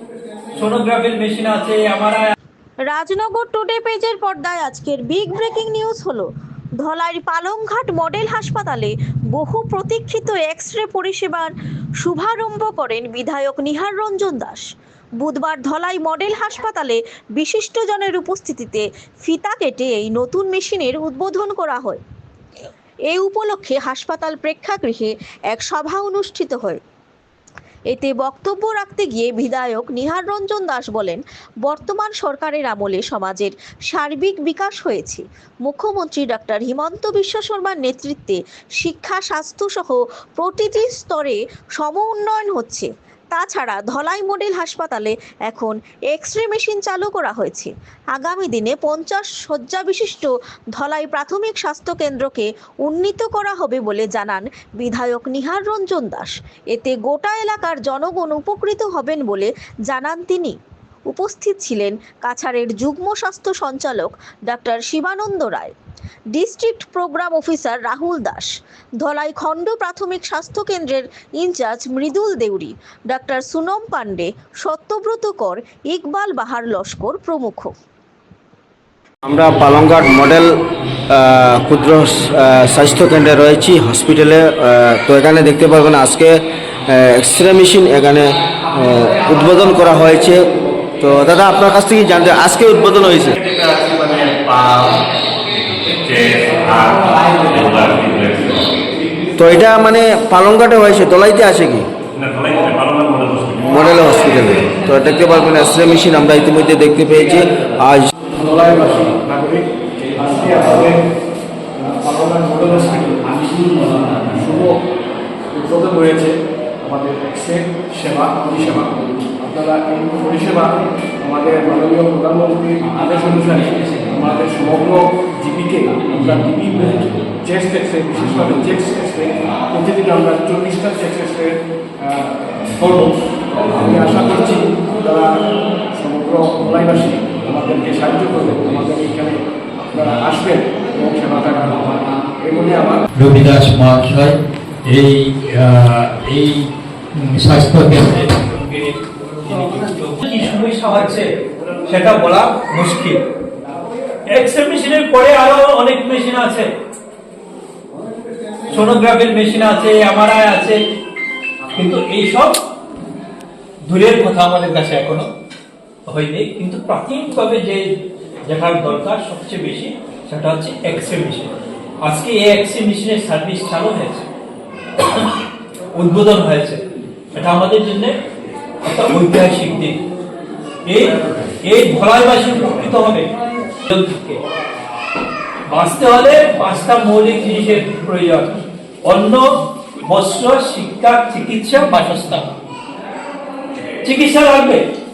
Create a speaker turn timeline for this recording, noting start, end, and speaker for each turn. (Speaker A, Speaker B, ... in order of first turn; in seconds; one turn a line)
Speaker A: 0.5-2.3
Speaker B: 2.9-6.3
Speaker B: 6.8-14.6
Speaker B: 15.2-22.0
Speaker B: 23.1-26.8
Speaker B: 27.9-60.5
Speaker B: 61.1-65.7
Speaker B: 66.3-68.5
Speaker B: 69.0-77.7
Speaker C: 79.3-80.6
Speaker C: 81.1-86.4
Speaker C: 86.9-90.5
Speaker C: 91.0-93.4
Speaker D: 93.3-95.0
Speaker D: 95.9-98.9
Speaker C: 99.4-101.9
Speaker D: 102.2-103.9
Speaker C: 103.7-108.1
Speaker E: 108.3-111.0
Speaker E: 111.8-114.8
Speaker E: 115.5-135.3
Speaker E: 135.9-143.0
Speaker F: 143.2-148.2
Speaker A: 148.2-151.3
Speaker A: 151.9-153.2
Speaker A: 154.3-156.7
Speaker A: 158.7-160.8
Speaker A: 161.7-162.6
Speaker A: 163.9-165.3
Speaker A: 166.1-167.9
Speaker A: 168.5-171.5
Speaker A: 172.0-174.3
Speaker A: 175.0-175.3
Speaker A: 175.9-176.8
Speaker A: 177.3-178.2
Speaker A: 178.8-180.0
Speaker A: 180.9-183.3
Speaker A: 183.9-184.4
Speaker A: 185.7-192.4
Speaker F: 192.0-192.3
Speaker A: 194.0-194.8